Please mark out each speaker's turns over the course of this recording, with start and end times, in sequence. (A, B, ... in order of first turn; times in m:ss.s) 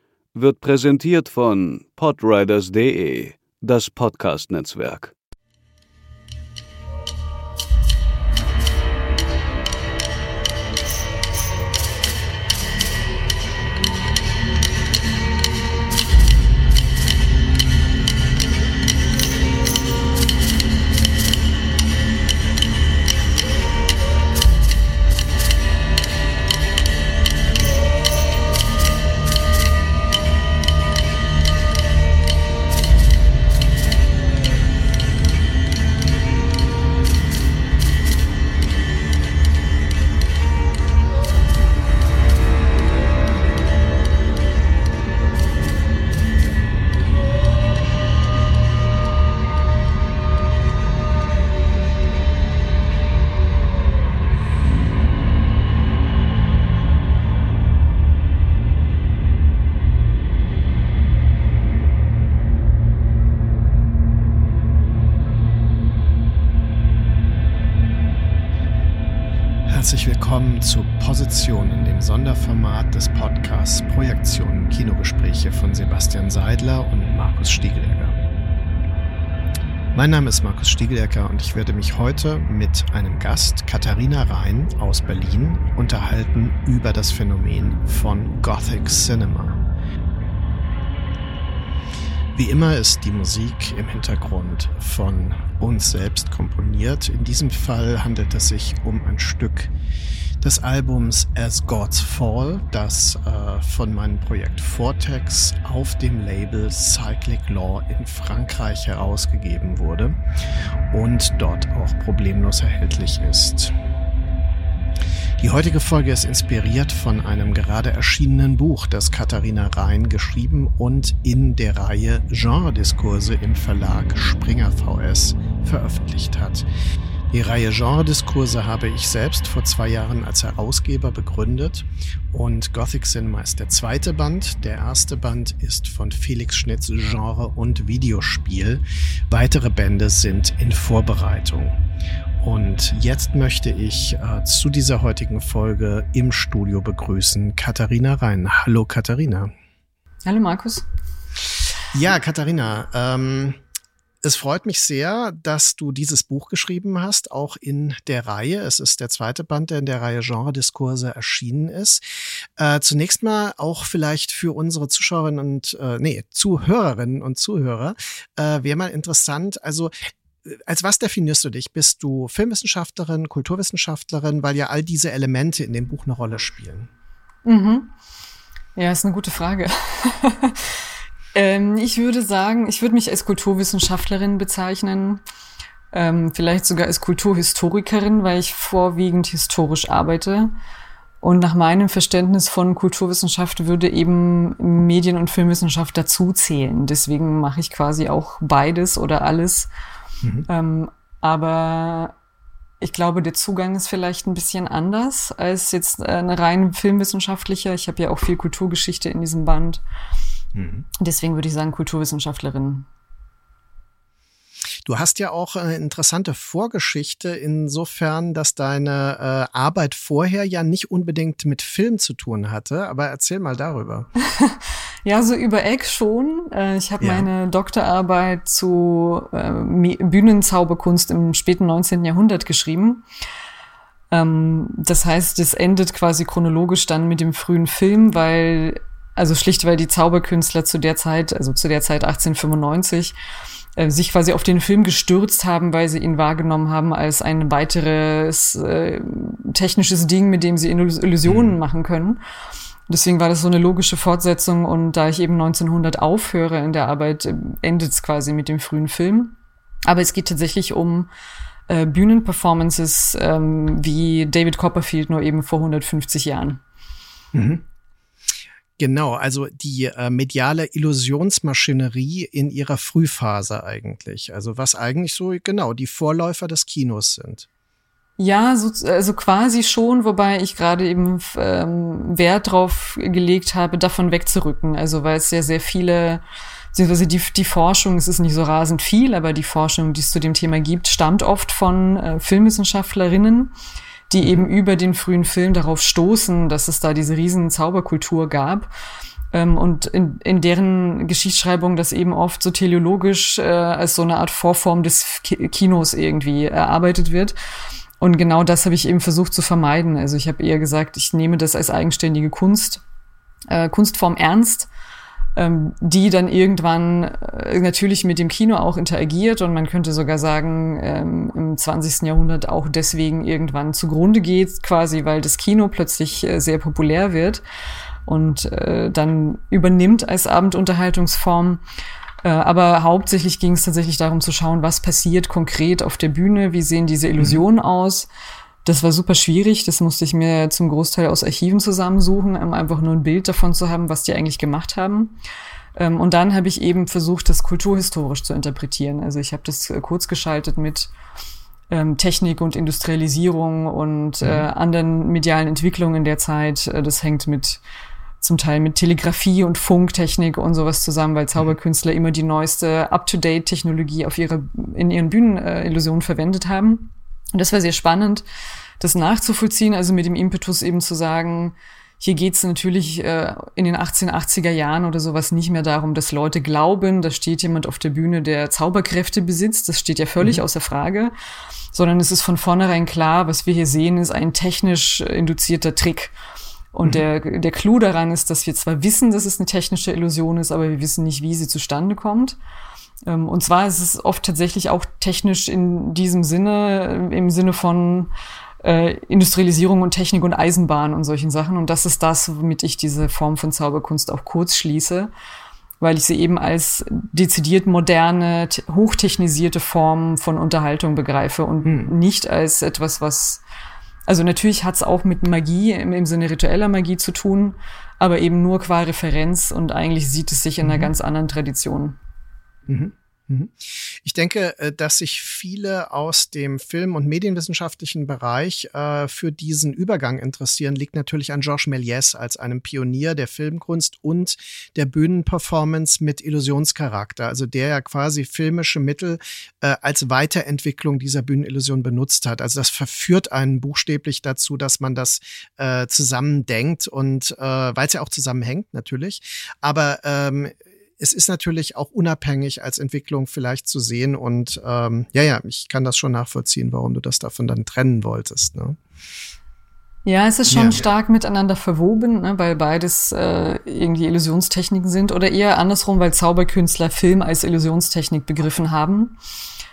0:00.3-0:05.1 A
1:09.7-1:18.2 B
1:19.9-1:29.6 B
1:32.3-1:39.7 B
1:40.4-1:50.2 B
1:50.9-1:53.7 B
1:55.4-2:06.7 B
2:07.3-2:21.8 B
2:22.4-2:29.5 B
2:30.2-2:30.8 C
2:31.9-2:33.6 B
2:34.2-2:42.0 B
2:42.6-2:56.9 B
2:57.4-2:57.9 C
2:58.8-3:00.8 C
3:01.3-3:05.2 C
3:05.9-3:10.5 C
3:11.2-3:19.7 C
3:20.2-3:20.5 B
3:20.5-3:22.1 C
3:22.8-3:29.8 C
3:30.5-3:30.9 B
3:31.0-3:32.9 C
3:34.8-3:44.1 B
3:44.3-3:53.0 C
3:47.0-3:47.3 B
3:54.1-4:03.2 C
4:03.8-4:12.2 C
4:11.2-4:11.6 B
4:12.9-4:19.3 C
4:19.9-4:21.1 C
4:21.7-4:26.6 C
4:27.3-4:27.6 B
4:28.8-4:37.4 B
4:38.2-4:46.2 C
4:46.7-4:53.5 C
4:54.1-4:58.7 C
4:59.3-5:07.3 C
5:08.0-5:12.8 C
5:13.5-5:14.7 C
5:15.4-5:27.4 C
5:28.0-5:31.6 C
5:32.2-5:38.1 C
5:38.6-5:45.2 C
5:45.8-5:50.9 C
5:51.7-5:57.6 C
5:54.2-5:54.5 B
5:58.2-6:08.2 C
6:08.8-6:21.1 C
6:21.7-6:26.1 C
6:26.7-6:32.4 C
6:33.0-6:38.1 C
6:38.6-6:45.1 C
6:45.8-6:53.4 C
6:51.6-6:51.9 B
6:54.1-7:02.0 C
7:00.6-7:00.9 B
7:02.7-7:38.8 B
7:40.0-7:49.2 C
7:40.5-7:40.9 B